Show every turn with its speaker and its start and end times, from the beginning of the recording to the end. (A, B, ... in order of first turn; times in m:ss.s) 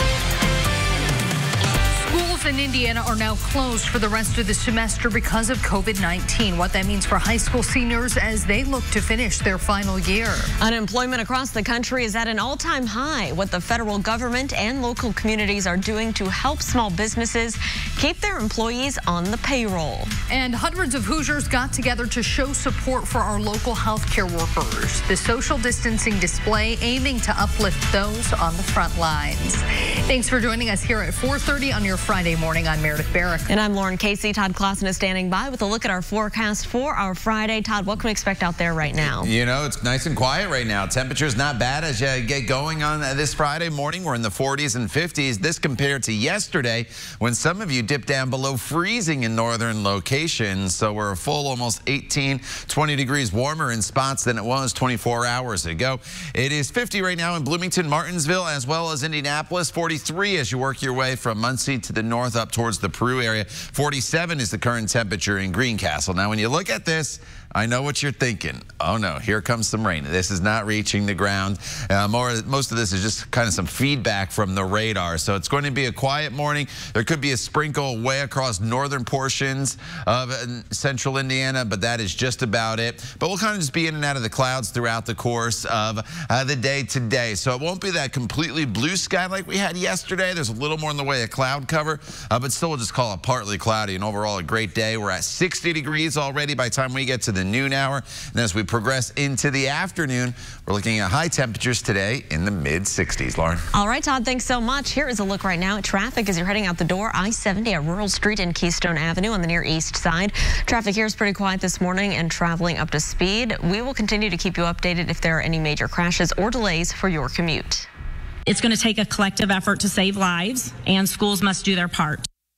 0:01.9-0:10.5 A
0:10.6-0:20.1 B
0:20.3-0:33.5 A
0:33.5-0:39.3 B
0:39.0-1:43.6 C
1:43.7-1:57.9 B
1:58.5-2:02.2 D